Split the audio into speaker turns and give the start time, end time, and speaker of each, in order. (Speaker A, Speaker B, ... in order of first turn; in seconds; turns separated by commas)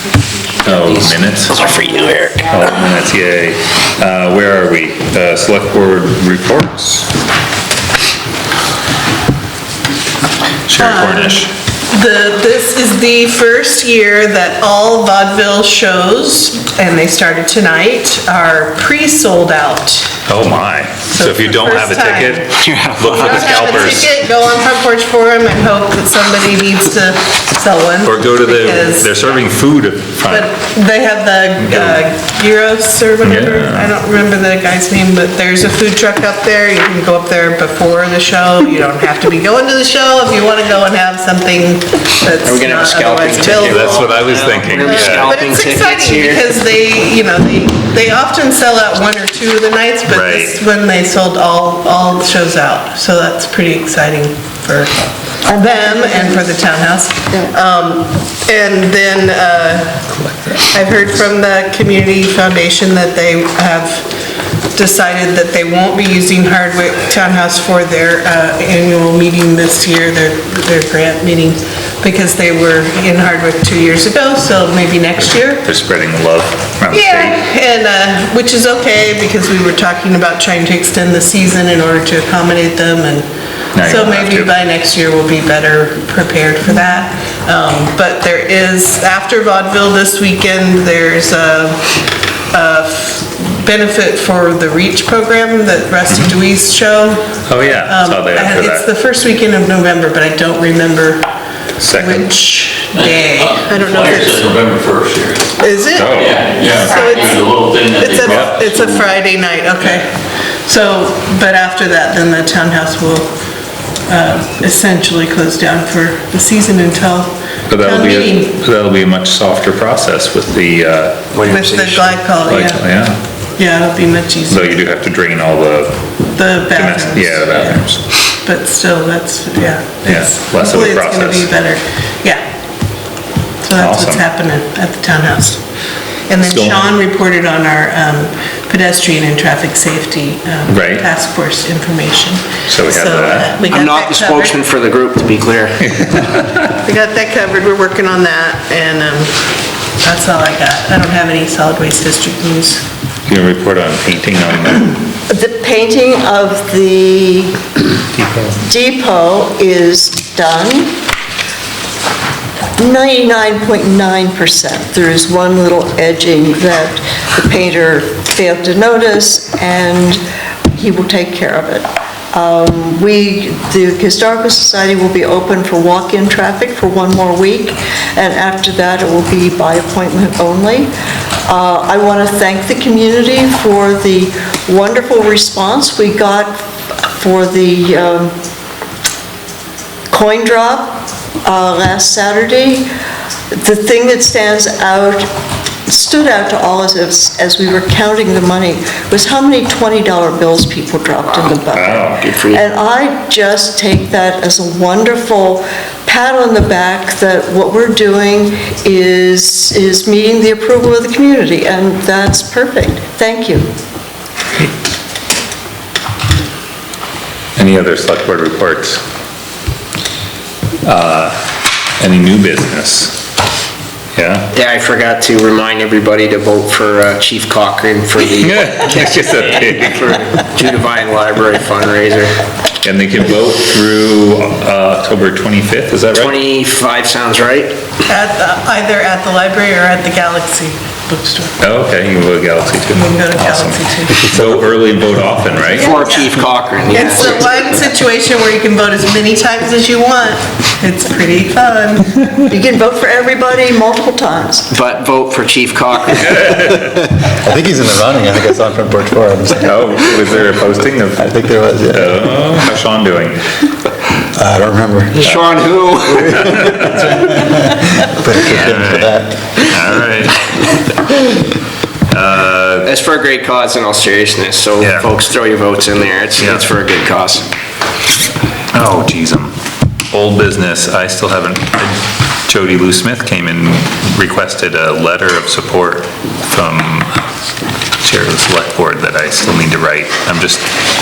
Speaker A: 0.6-1.7, Speaker B: 0.8-2.6, Speaker A: 2.4-7.1, Speaker A: 10.7-11.5, Speaker C: 10.8-20.2, Speaker A: 20.3-24.2, Speaker C: 21.1-22.5, Speaker B: 22.6-23.5, Speaker C: 23.2-29.4, Speaker A: 28.0-30.6, Speaker C: 30.3-44.1, Speaker A: 31.6-32.0, Speaker A: 33.2-33.9, Speaker B: 42.5-46.5, Speaker A: 43.6-45.4, Speaker C: 44.8-64.1, Speaker A: 50.1-50.6, Speaker D: 55.5-56.6, Speaker A: 60.1-60.7, Speaker C: 64.7-75.7, Speaker A: 75.6-77.4, Speaker C: 76.9-91.8, Speaker A: 83.7-84.5, Speaker C: 92.5-101.2, Speaker A: 96.1-96.3, Speaker A: 97.5-98.9, Speaker A: 101.8-102.3, Speaker C: 101.9-104.5, Speaker E: 102.9-109.1, Speaker C: 105.6-107.5, Speaker A: 105.9-106.5, Speaker C: 108.0-110.1, Speaker A: 108.3-108.6, Speaker C: 110.7-113.3, Speaker C: 114.1-118.5, Speaker A: 117.7-121.4, Speaker B: 121.3-122.2, Speaker C: 121.5-122.8, Speaker A: 122.5-123.2, Speaker C: 123.5-124.8, Speaker A: 124.5-126.1, Speaker C: 126.2-127.8, Speaker A: 126.7-128.0, Speaker C: 128.4-132.4, Speaker A: 130.0-131.5, Speaker C: 133.6-135.6, Speaker A: 133.8-134.2, Speaker C: 136.3-144.6, Speaker A: 136.4-136.8, Speaker A: 140.7-141.1, Speaker A: 142.7-143.6, Speaker B: 143.7-145.8, Speaker A: 145.9-146.7, Speaker C: 146.7-149.3, Speaker C: 150.0-152.8, Speaker A: 153.3-154.9, Speaker D: 155.3-157.6, Speaker A: 158.1-158.6, Speaker D: 158.6-160.9, Speaker D: 162.8-170.2, Speaker D: 170.7-180.9, Speaker D: 181.5-188.3, Speaker D: 190.1-192.8, Speaker D: 193.5-195.3, Speaker D: 195.8-213.7, Speaker B: 201.3-202.6, Speaker A: 201.7-202.3, Speaker A: 217.6-219.0, Speaker A: 220.8-221.4, Speaker A: 222.0-223.2, Speaker A: 224.2-224.5, Speaker B: 224.5-228.9, Speaker A: 228.3-230.5, Speaker B: 229.7-232.3, Speaker A: 232.8-236.4, Speaker B: 236.1-237.8, Speaker C: 238.1-241.6, Speaker A: 241.6-246.0, Speaker C: 242.9-244.2, Speaker F: 244.3-244.6, Speaker B: 245.7-247.5, Speaker C: 245.9-252.2, Speaker D: 252.5-254.7, Speaker B: 254.7-256.6, Speaker A: 256.4-256.8, Speaker F: 256.6-260.4, Speaker A: 259.5-263.4, Speaker F: 261.1-262.2, Speaker F: 264.3-265.3, Speaker B: 265.1-267.0, Speaker F: 266.2-269.4, Speaker A: 266.6-267.0, Speaker A: 268.4-270.5, Speaker A: 272.1-272.9, Speaker B: 272.9-277.4, Speaker A: 274.8-275.1, Speaker A: 276.4-276.7, Speaker A: 278.7-279.5, Speaker A: 280.1-287.2, Speaker A: 288.0-290.7